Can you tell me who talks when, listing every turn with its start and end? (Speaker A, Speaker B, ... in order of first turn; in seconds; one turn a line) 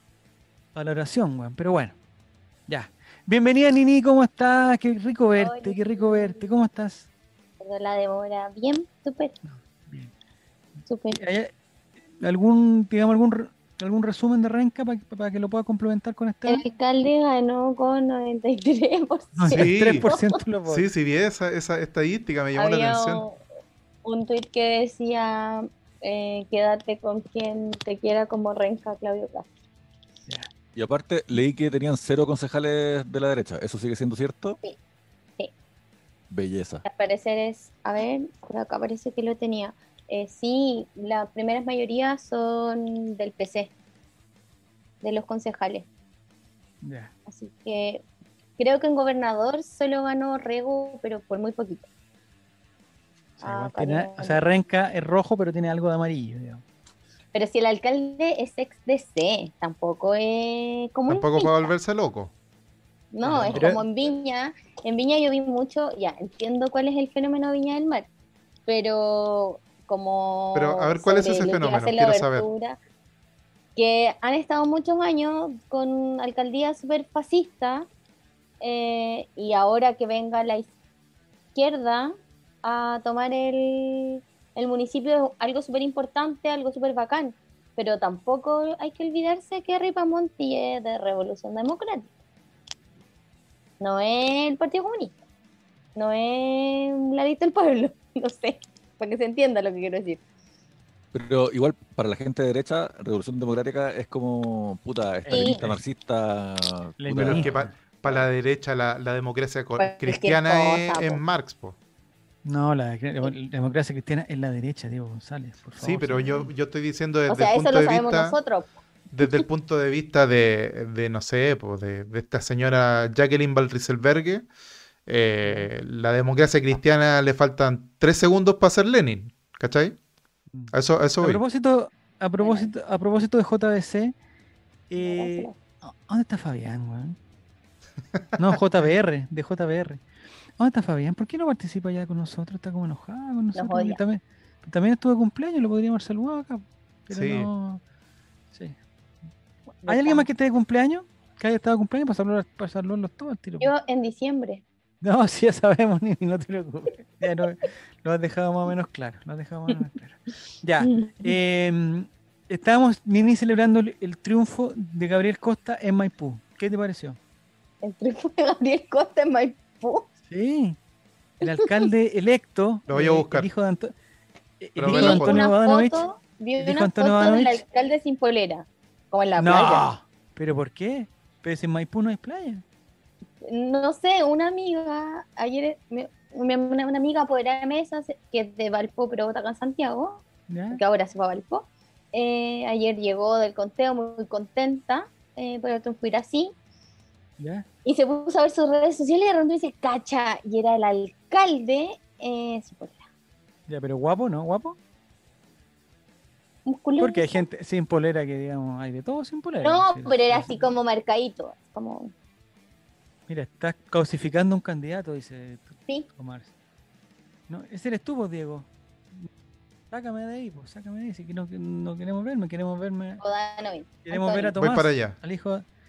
Speaker A: 0.8-2.0
Speaker A: 2.7-7.1
Speaker B: 5.3-6.4
Speaker B: 7.6-9.3
Speaker A: 9.4-10.1
Speaker B: 10.9-11.2
Speaker A: 11.1-11.5
Speaker A: 12.2-16.7
Speaker B: 16.5-20.2
Speaker A: 19.4-20.9
Speaker C: 19.5-20.1
Speaker C: 20.7-23.3
Speaker B: 22.6-23.4
Speaker B: 24.0-29.5
Speaker D: 30.8-34.6
Speaker D: 36.3-36.9
Speaker B: 36.9-43.7
Speaker B: 45.0-45.9
Speaker A: 46.8-47.1
Speaker B: 47.3-48.0
Speaker B: 48.6-51.9
Speaker A: 53.4-56.6
Speaker B: 53.4-54.4
Speaker B: 57.3-61.7
Speaker C: 61.1-62.3
Speaker B: 63.1-68.1
Speaker A: 63.2-63.8
Speaker B: 68.7-72.8
Speaker C: 70.5-72.5
Speaker B: 73.8-77.9
Speaker B: 78.6-80.7
Speaker B: 81.5-92.1
Speaker B: 93.8-95.2
Speaker B: 96.0-100.2
Speaker D: 101.1-107.5
Speaker A: 105.3-105.8
Speaker B: 105.3-105.6
Speaker A: 107.0-107.7
Speaker C: 107.2-111.8
Speaker B: 109.8-111.2
Speaker A: 112.5-116.5
Speaker C: 115.8-118.4
Speaker B: 117.3-118.7
Speaker C: 119.1-124.5
Speaker C: 125.1-130.0
Speaker A: 125.4-125.7
Speaker A: 130.5-134.2
Speaker C: 130.7-131.4
Speaker B: 132.4-132.7
Speaker A: 134.9-137.2
Speaker B: 135.0-135.6
Speaker A: 138.4-140.0
Speaker A: 140.6-147.8
Speaker B: 143.6-144.0
Speaker C: 147.1-147.5
Speaker A: 149.8-153.7
Speaker B: 149.9-150.3
Speaker B: 153.6-154.6
Speaker A: 155.0-167.2
Speaker B: 160.8-161.3
Speaker B: 167.8-170.1
Speaker A: 170.3-170.8
Speaker A: 171.4-173.9
Speaker C: 172.9-173.5
Speaker A: 174.6-176.1
Speaker C: 174.8-175.4
Speaker B: 174.9-179.9
Speaker A: 176.6-177.6
Speaker A: 179.4-182.6
Speaker B: 183.4-196.5
Speaker A: 190.5-190.8
Speaker A: 197.4-197.7
Speaker B: 197.8-203.0
Speaker A: 203.7-204.8
Speaker B: 206.7-207.4
Speaker A: 207.0-210.7
Speaker B: 209.6-212.1
Speaker A: 213.3-216.5
Speaker A: 217.5-219.3
Speaker A: 219.9-223.2
Speaker B: 223.2-224.6
Speaker A: 224.1-225.7
Speaker C: 224.6-225.2